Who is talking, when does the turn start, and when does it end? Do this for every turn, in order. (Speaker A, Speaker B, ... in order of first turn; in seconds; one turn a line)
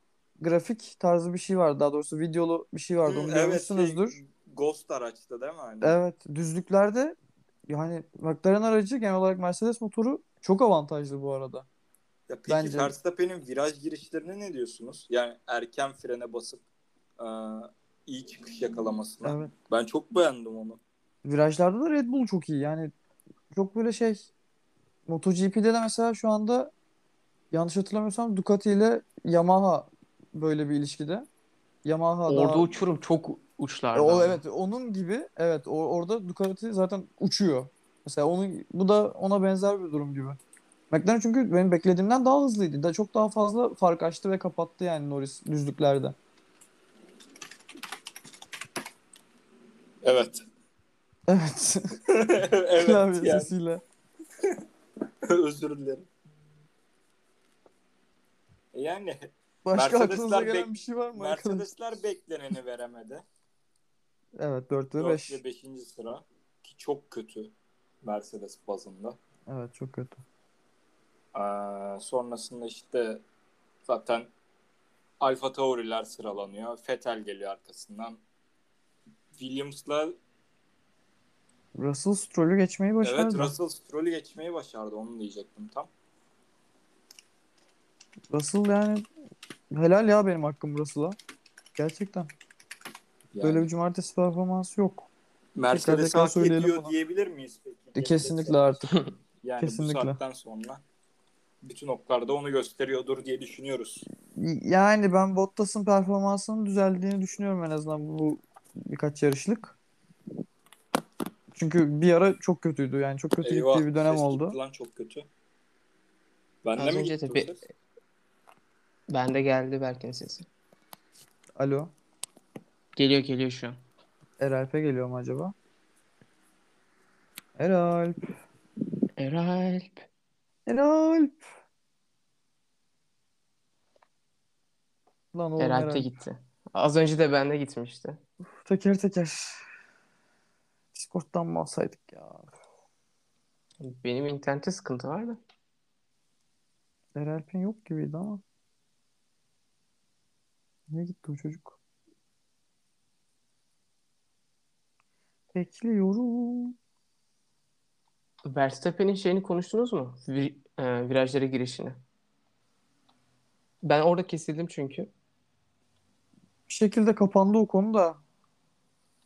Speaker A: 0.4-4.2
Speaker B: 3.0-6.0
Speaker A: 5.8-7.2
Speaker A: 7.7-11.7
Speaker B: 12.3-16.6
Speaker A: 12.5-13.0
Speaker B: 17.2-20.8
Speaker A: 19.2-19.5
Speaker A: 21.2-22.9
Speaker A: 23.5-24.3
Speaker A: 25.1-26.7
Speaker A: 27.5-31.3
Speaker A: 31.8-32.7
Speaker C: 32.3-34.4
Speaker A: 33.9-40.4
Speaker A: 40.9-46.1
Speaker B: 50.0-50.4
Speaker A: 51.3-52.0
Speaker B: 52.1-53.5
Speaker A: 52.8-53.8
Speaker B: 55.2-56.1
Speaker B: 58.7-63.2
Speaker A: 59.6-61.7
Speaker A: 64.4-65.4
Speaker B: 65.0-67.5
Speaker B: 68.0-69.2
Speaker A: 69.5-70.2
Speaker B: 71.3-73.2
Speaker B: 73.9-74.3
Speaker B: 75.2-78.2
Speaker B: 79.3-80.1
Speaker A: 81.8-83.5
Speaker B: 83.0-85.9
Speaker A: 88.3-89.1
Speaker A: 89.7-91.2
Speaker A: 91.8-92.3
Speaker B: 93.3-93.7
Speaker A: 93.4-95.1
Speaker B: 95.5-98.8
Speaker A: 95.7-96.9
Speaker A: 97.9-98.9
Speaker B: 99.4-100.8
Speaker A: 99.6-100.2
Speaker B: 101.6-104.0
Speaker A: 104.3-109.7
Speaker A: 111.5-114.6
Speaker B: 113.4-115.2
Speaker B: 116.6-117.6
Speaker C: 116.8-117.5
Speaker C: 119.1-120.5
Speaker A: 121.6-121.9
Speaker C: 123.0-123.8
Speaker A: 124.4-125.5
Speaker A: 127.6-128.3
Speaker C: 129.2-130.1
Speaker A: 130.7-131.4
Speaker A: 135.3-136.1
Speaker C: 135.6-138.2
Speaker A: 138.6-139.6
Speaker A: 140.9-142.5
Speaker C: 143.8-145.4
Speaker A: 147.1-148.4
Speaker A: 150.9-151.8
Speaker A: 155.5-156.7
Speaker C: 158.4-162.0
Speaker C: 163.8-165.1
Speaker A: 166.7-168.2